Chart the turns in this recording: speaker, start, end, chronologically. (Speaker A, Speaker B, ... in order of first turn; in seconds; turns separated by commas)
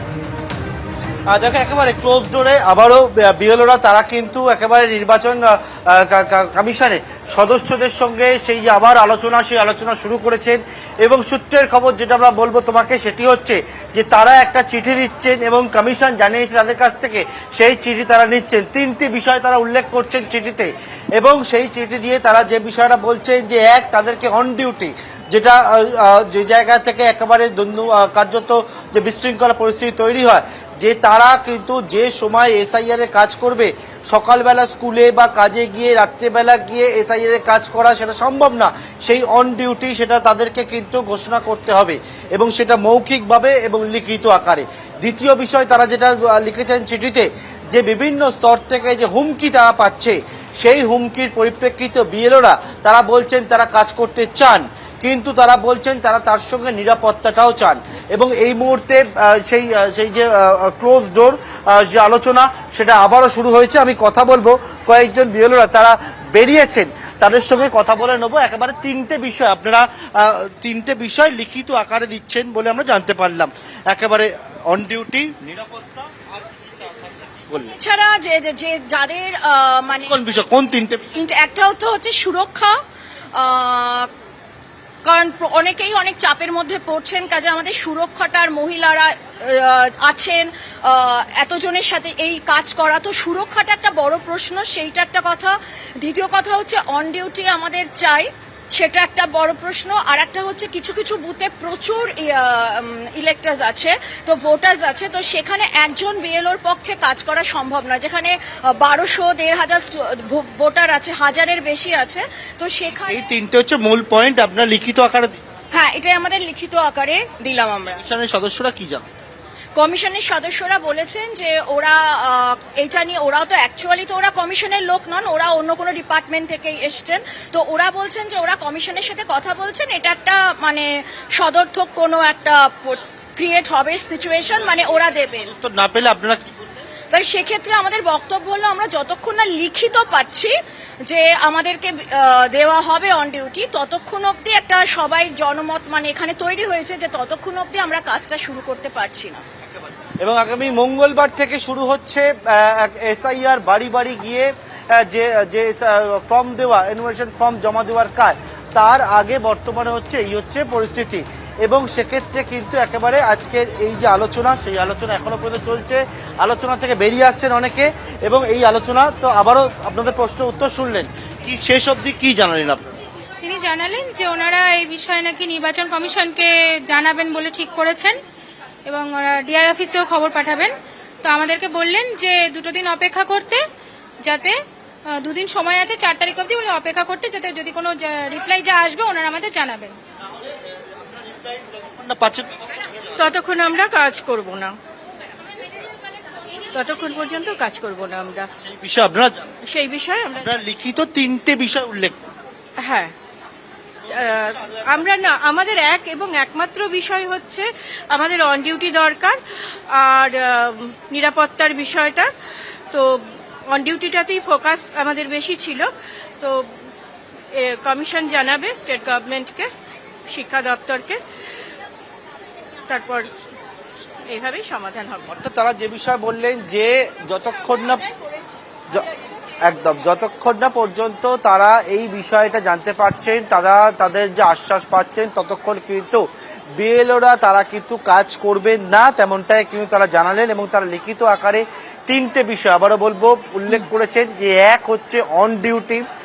Speaker A: 1.3-76.1, Speaker A: 76.8-77.7, Speaker B: 77.7-80.1, Speaker A: 80.0-81.1, Speaker B: 81.1-82.8, Speaker B: 83.3-84.1, Speaker B: 85.0-113.2, Speaker A: 113.1-115.3, Speaker B: 115.7-118.0, Speaker A: 117.9-119.0, Speaker B: 119.8-135.5, Speaker A: 135.4-136.4, Speaker B: 137.1-140.5, Speaker B: 141.1-149.4, Speaker A: 150.2-172.8, Speaker C: 173.4-178.2, Speaker C: 178.8-183.6, Speaker C: 184.2-184.6, Speaker C: 185.1-189.9, Speaker A: 191.8-192.5, Speaker D: 193.2-194.7, Speaker D: 196.7-198.5, Speaker A: 198.6-199.5, Speaker D: 199.7-200.3, Speaker A: 200.3-202.2, Speaker D: 202.8-203.1, Speaker D: 204.1-209.4, Speaker D: 210.0-212.3, Speaker D: 213.7-215.9, Speaker D: 217.6-219.7, Speaker D: 220.3-221.2, Speaker D: 222.9-223.3, Speaker D: 224.3-225.2, Speaker A: 225.3-228.0, Speaker A: 229.6-236.2, Speaker A: 236.8-246.0